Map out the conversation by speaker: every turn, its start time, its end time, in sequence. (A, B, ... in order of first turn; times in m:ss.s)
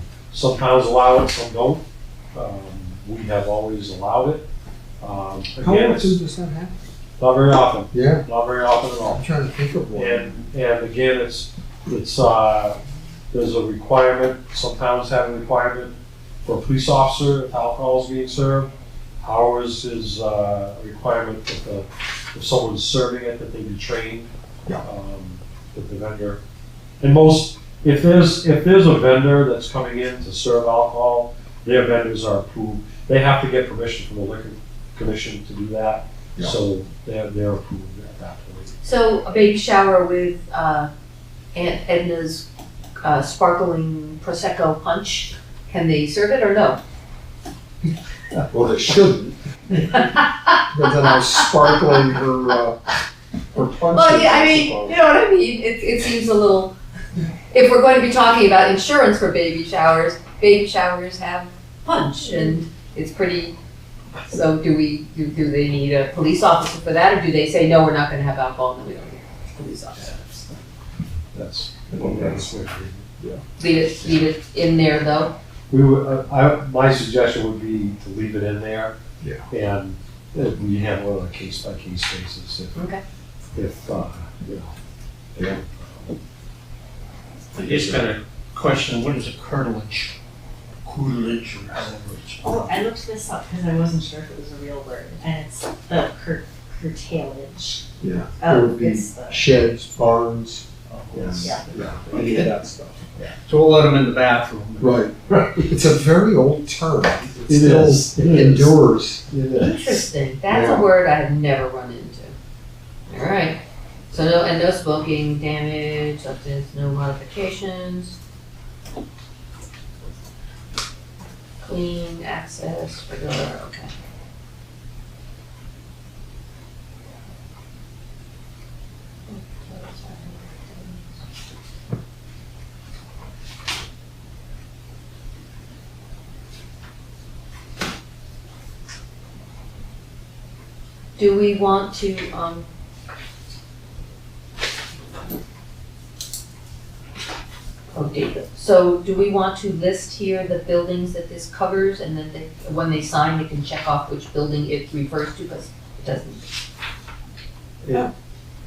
0:00.3-0:04.5 A
0:05.0-0:06.2 A
0:05.6-0:06.8 B
0:07.2-0:09.2 A
0:07.9-0:08.2 B
0:09.0-0:10.4 B
0:09.9-0:12.8 A
0:13.3-0:24.3 A
0:24.8-0:26.4 A
0:27.0-0:38.7 A
0:38.8-0:40.9 C
0:41.5-0:42.5 C
0:43.0-0:46.8 C
0:48.5-0:50.1 B
0:49.8-0:51.8 C
0:50.7-0:52.8 B
0:53.5-0:55.0 B
0:53.9-0:56.7 C
0:57.5-1:03.6 C
1:04.2-1:10.4 C
1:11.3-1:13.2 A
1:11.9-1:12.5 B
1:13.6-1:15.3 C
1:15.7-1:19.0 A
1:19.5-1:22.8 A
1:22.7-1:23.0 C
1:23.5-1:24.7 A
1:25.4-1:26.1 A
1:27.5-1:30.1 D
1:27.7-1:28.0 A
1:30.8-1:32.9 D
1:32.4-1:37.9 E
1:38.0-1:43.0 B
1:38.4-1:39.5 E
1:40.8-1:42.5 D
1:43.2-1:45.4 D
1:44.8-1:49.3 B
1:47.5-1:50.0 A
1:49.5-1:52.3 C
1:50.5-1:50.9 B
1:53.1-1:58.2 C
2:01.6-2:03.9 C
2:09.3-2:11.0 E
2:21.2-2:22.6 C
2:27.9-2:36.4 C
2:37.8-2:38.1 A